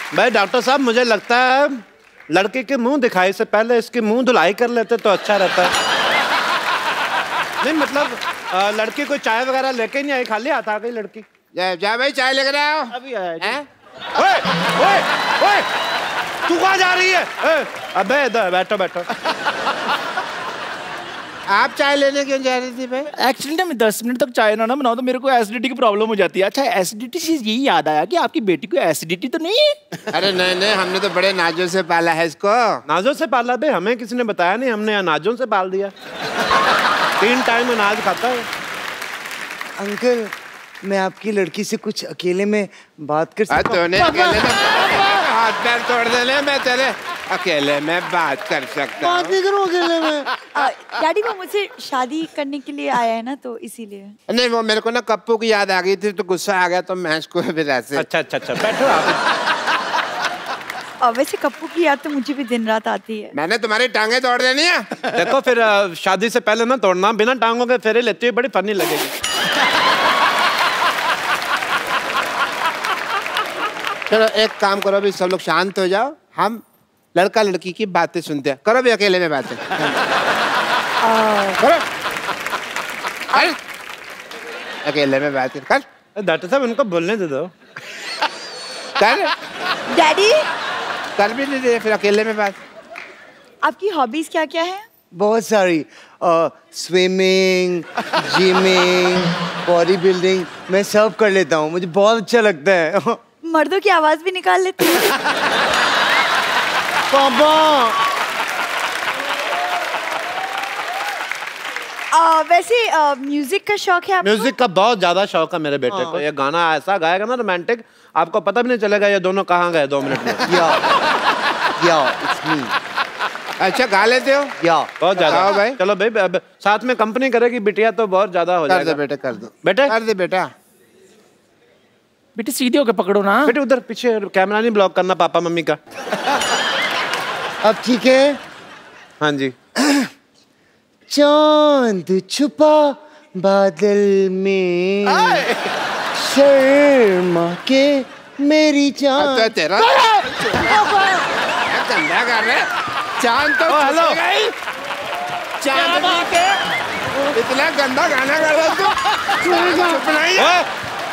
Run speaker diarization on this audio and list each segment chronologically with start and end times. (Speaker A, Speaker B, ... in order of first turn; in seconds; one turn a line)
Speaker A: 0.1-5.7
Speaker A: 7.6-11.3
Speaker B: 11.5-13.6
Speaker C: 12.9-13.6
Speaker A: 14.2-15.7
Speaker A: 16.5-19.1
Speaker B: 21.5-23.1
Speaker C: 23.1-29.8
Speaker B: 30.1-32.8
Speaker A: 32.9-35.9
Speaker A: 37.2-38.5
Speaker D: 39.8-45.1
Speaker B: 43.5-49.4
Speaker D: 49.0-50.3
Speaker E: 50.5-54.1
Speaker B: 54.3-58.0
Speaker A: 58.0-59.2
Speaker E: 61.0-63.4
Speaker B: 63.4-64.9
Speaker A: 65.1-69.2
Speaker B: 74.1-76.6
Speaker B: 77.2-79.9
Speaker E: 81.0-81.6
Speaker B: 81.6-81.8
Speaker B: 84.8-85.8
Speaker A: 86.2-87.5
Speaker B: 89.0-89.3
Speaker E: 89.9-90.5
Speaker B: 91.2-92.6
Speaker E: 93.6-94.9
Speaker D: 95.2-103.2
Speaker E: 103.5-105.2
Speaker D: 107.1-108.0
Speaker E: 112.1-114.5
Speaker A: 114.2-120.5
Speaker D: 115.9-116.2
Speaker D: 120.4-120.8
Speaker D: 121.8-122.8
Speaker B: 123.6-124.5
Speaker D: 124.6-124.9
Speaker A: 125.0-129.0
Speaker B: 125.2-125.8
Speaker B: 128.7-130.5
Speaker A: 129.6-129.9
Speaker C: 132.3-133.6
Speaker A: 133.5-135.8
Speaker D: 137.6-138.4
Speaker A: 139.2-139.6
Speaker D: 139.8-140.1
Speaker D: 141.1-145.5
Speaker D: 146.1-149.5
Speaker B: 149.2-150.1
Speaker C: 150.3-150.6
Speaker B: 151.7-152.7
Speaker B: 153.2-154.6
Speaker A: 153.7-154.2
Speaker B: 155.7-156.3
Speaker C: 155.8-156.5
Speaker B: 157.2-160.6
Speaker A: 160.3-160.7